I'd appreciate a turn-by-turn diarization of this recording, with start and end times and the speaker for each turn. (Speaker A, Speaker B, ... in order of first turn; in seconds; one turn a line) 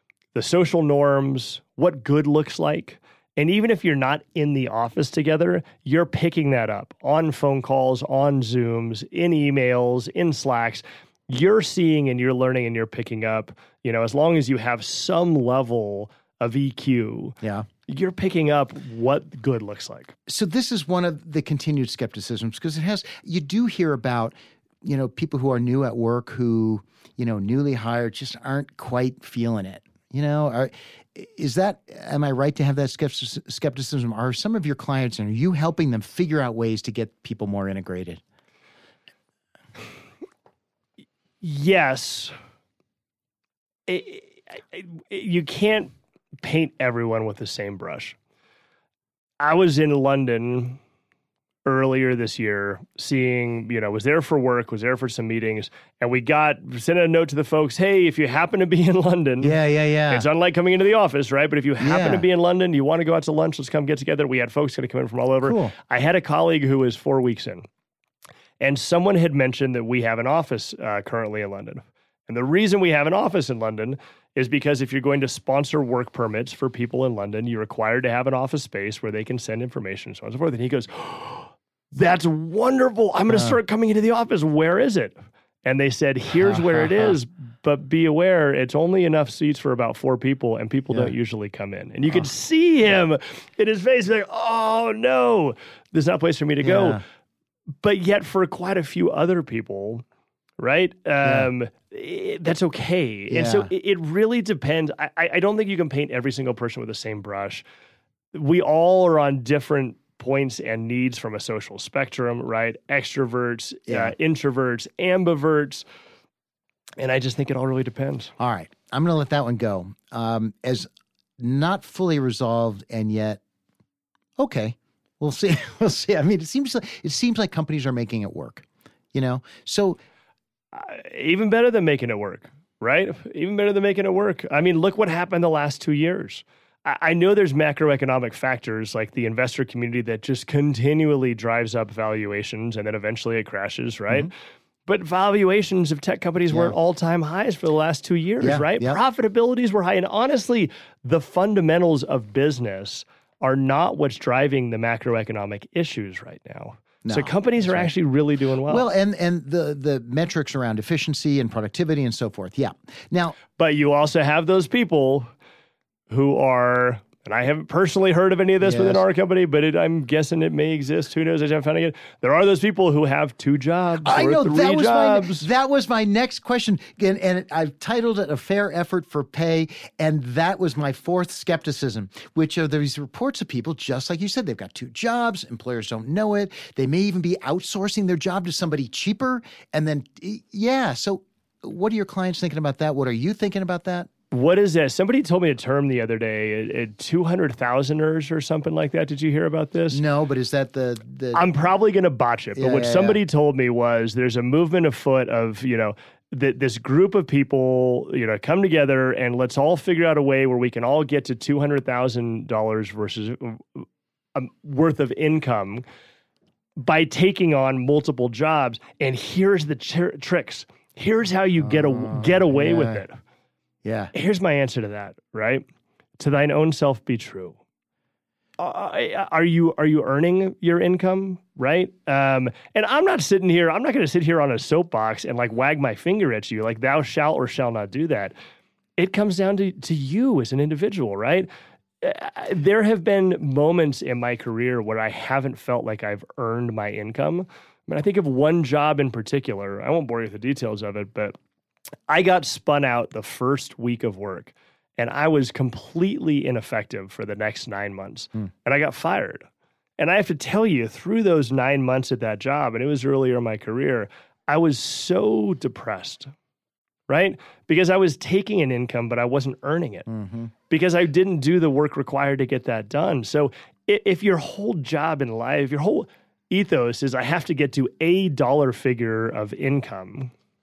Speaker A: 0.3-20.1
Speaker B: 17.4-17.7
Speaker B: 20.3-38.2
Speaker A: 41.4-42.3
Speaker A: 43.9-45.9
Speaker A: 46.4-48.2
Speaker A: 49.4-50.8
Speaker A: 51.6-67.7
Speaker B: 59.4-60.3
Speaker B: 61.8-62.2
Speaker B: 65.4-65.7
Speaker A: 68.6-97.0
Speaker B: 83.3-83.6
Speaker B: 86.4-87.2
Speaker B: 96.6-97.0
Speaker A: 97.8-100.0
Speaker A: 100.6-107.6
Speaker B: 101.2-101.5
Speaker B: 103.3-103.7
Speaker A: 108.3-115.8
Speaker B: 113.9-114.1
Speaker A: 117.0-118.3
Speaker B: 118.4-120.9
Speaker B: 121.4-123.4
Speaker B: 124.4-130.0
Speaker A: 130.7-144.3
Speaker A: 144.9-158.8
Speaker B: 146.5-146.8
Speaker B: 148.4-149.0
Speaker B: 157.1-157.9
Speaker B: 158.7-163.4
Speaker A: 163.6-165.3
Speaker A: 166.1-175.5
Speaker B: 168.6-169.0
Speaker B: 174.0-194.1
Speaker A: 194.3-200.0
Speaker B: 199.9-201.5
Speaker A: 201.3-213.8
Speaker B: 202.6-203.2
Speaker A: 214.3-215.8
Speaker A: 216.8-223.2
Speaker B: 221.6-223.0
Speaker B: 223.8-224.1
Speaker A: 224.1-225.6
Speaker A: 226.2-227.6
Speaker A: 228.6-238.3
Speaker A: 239.0-241.5
Speaker A: 242.0-251.3
Speaker A: 252.1-259.5
Speaker A: 260.0-266.3
Speaker A: 267.1-270.1
Speaker B: 270.1-270.5
Speaker A: 270.7-280.3